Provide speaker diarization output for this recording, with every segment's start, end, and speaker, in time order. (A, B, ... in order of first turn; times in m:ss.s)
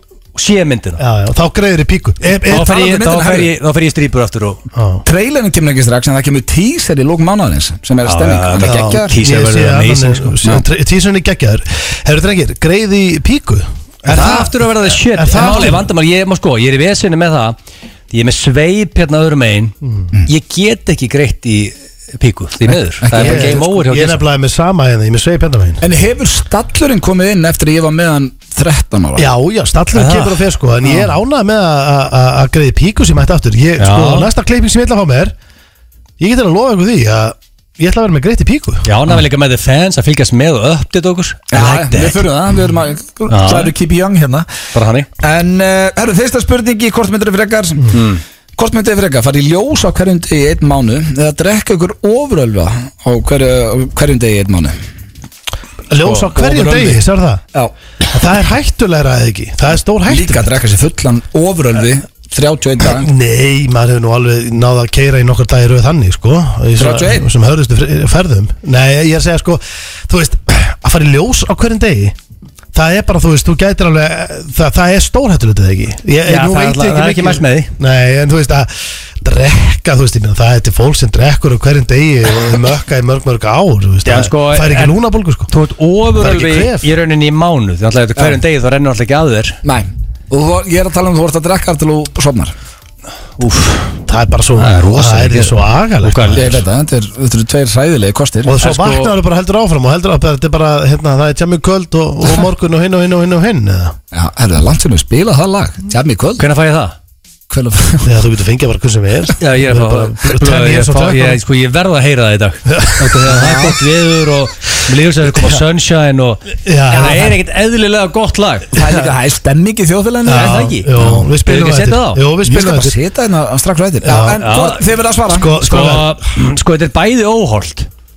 0:00.3-0:01.0 A
0:01.0-0:02.7 B
0:02.4-0:04.6 A
0:02.5-0:03.5 C
0:04.7-0:05.0 B
0:05.0-0:09.1 C
0:08.0-0:10.4 A
0:08.6-0:15.8 B
0:14.1-0:17.6 A
0:18.1-0:19.8 A
0:20.3-0:24.2 A
0:23.0-0:23.6 C
0:23.1-0:25.8 B
0:25.8-0:29.3 C
0:29.2-0:35.3 B
0:29.9-0:30.4 A
0:33.8-0:34.3 A
0:36.2-0:38.9 B
0:38.8-0:42.2 A
0:41.5-0:44.5 C
0:43.3-0:43.7 A
0:44.7-0:45.1 A
0:45.2-0:48.0 C
0:47.9-0:48.2 A
0:48.6-0:54.8 C
0:55.9-0:57.4 B
0:56.3-0:57.0 C
0:58.1-1:00.5 B
1:00.1-1:03.1 C
1:02.8-1:12.2 B
1:06.8-1:07.3 C
1:12.7-1:25.5 B
1:16.2-1:17.7 A
1:24.0-1:29.6 A
1:26.2-1:26.9 B
1:29.6-1:32.5 C
1:33.4-1:34.0 A
1:34.1-1:36.6 B
1:34.6-1:36.6 A
1:36.3-1:38.6 C
1:38.4-1:44.0 B
1:38.6-1:39.2 A
1:44.1-1:46.4 C
1:46.4-1:47.0 A
1:47.5-1:48.1 C
1:48.0-1:51.4 B
1:49.4-1:58.8 A
1:52.7-1:53.0 B
1:53.0-1:53.8 C
1:56.6-1:57.4 B
1:58.7-2:01.2 C
2:00.2-2:03.0 B
2:00.3-2:02.2 A
2:02.4-2:05.5 C
2:04.0-2:04.4 B
2:04.3-2:04.8 A
2:05.3-2:06.2 B
2:05.6-2:07.9 A